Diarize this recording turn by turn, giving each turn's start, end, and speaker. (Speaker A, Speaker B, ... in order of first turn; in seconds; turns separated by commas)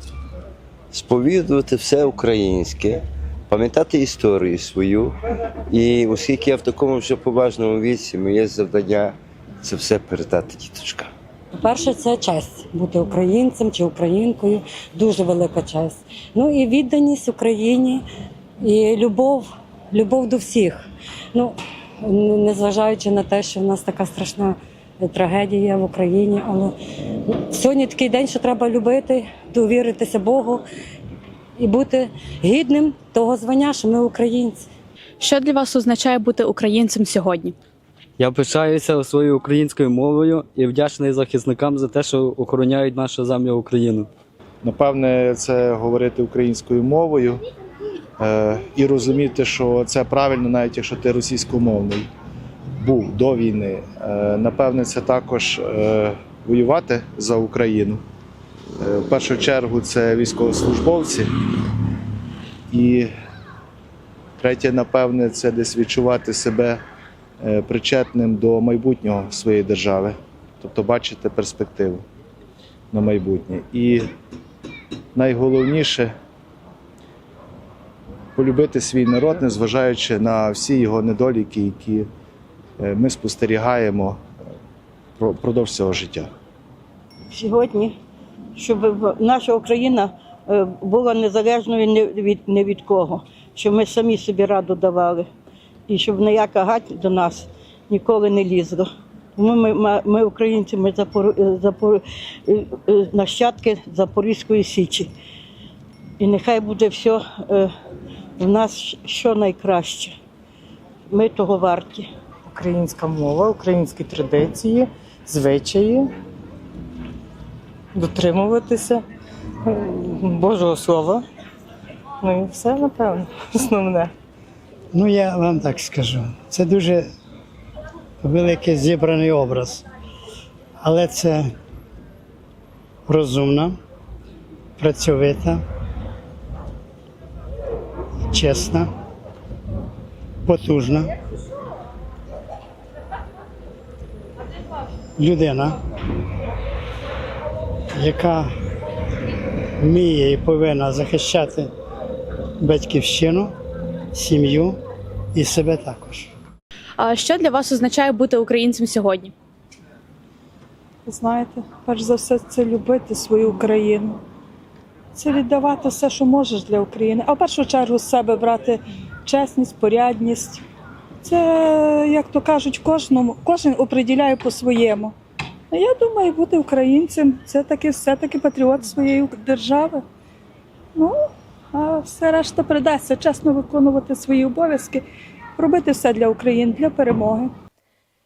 Speaker A: 0.9-5.2, Speaker A: 5.7-11.1, Speaker B: 11.5-18.0, Speaker B: 18.6-26.8, Speaker B: 27.3-30.6, Speaker B: 31.6-34.7, Speaker C: 35.2-37.6, Speaker D: 38.2-44.1, Speaker E: 44.6-47.4, Speaker E: 48.2-52.1, Speaker E: 52.8-58.0, Speaker E: 58.8-61.3, Speaker E: 62.7-63.1, Speaker E: 64.4-66.8, Speaker E: 67.4-72.0, Speaker E: 72.9-74.1, Speaker E: 75.2-76.1, Speaker E: 78.3-82.1, Speaker E: 82.8-84.2, Speaker E: 85.2-86.3, Speaker F: 87.3-88.0, Speaker F: 88.6-95.3, Speaker F: 95.9-105.1, Speaker F: 106.2-107.7, Speaker F: 108.4-110.2, Speaker F: 111.1-112.1, Speaker G: 112.5-116.1, Speaker G: 118.0-119.0, Speaker G: 119.7-121.2, Speaker G: 122.2-124.1, Speaker H: 124.9-127.1, Speaker H: 128.2-129.8, Speaker H: 130.8-131.5, Speaker H: 133.1-133.8, Speaker H: 134.8-135.6, Speaker H: 138.3-138.9, Speaker H: 140.4-141.1, Speaker H: 145.2-145.8, Speaker H: 147.9-148.5, Speaker H: 149.8-151.7, Speaker H: 152.6-153.5, Speaker H: 154.1-154.8, Speaker H: 155.3-156.3, Speaker C: 157.0-159.3, Speaker I: 161.1-164.2, Speaker I: 165.1-170.6, Speaker I: 171.2-175.2, Speaker I: 175.7-180.0, Speaker I: 180.9-185.0, Speaker I: 185.6-187.5